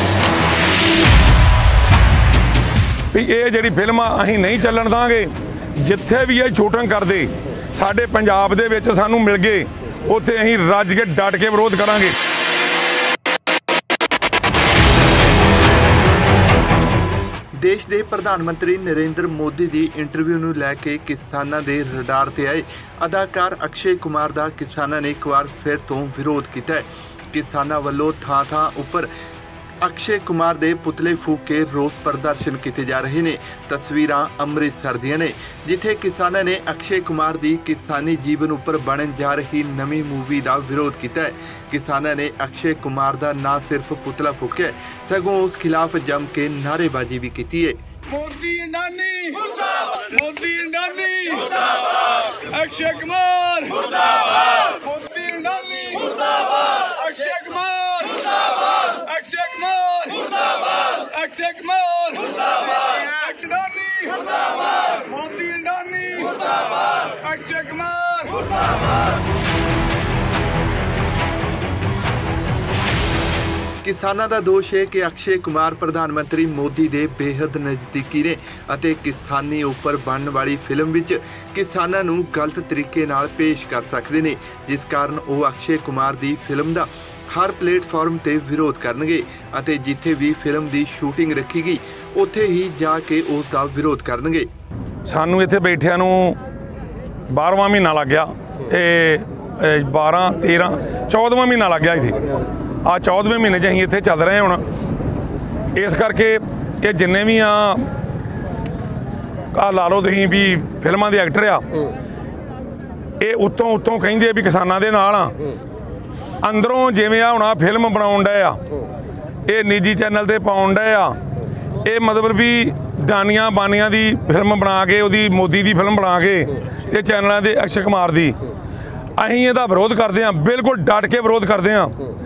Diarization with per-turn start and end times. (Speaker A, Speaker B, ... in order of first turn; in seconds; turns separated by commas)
Speaker A: 3.1-12.2, Speaker B: 17.6-29.1, Speaker B: 29.8-47.8, Speaker C: 48.1-68.7, Speaker A: 51.0-51.4, Speaker A: 53.0-53.4, Speaker B: 73.8-94.5, Speaker A: 95.0-96.4, Speaker A: 97.3-102.2, Speaker A: 102.8-104.6, Speaker A: 105.8-107.9, Speaker A: 109.5-111.7, Speaker A: 113.2-115.4, Speaker A: 116.4-118.6, Speaker A: 119.5-121.2, Speaker A: 121.8-128.4, Speaker A: 129.2-131.9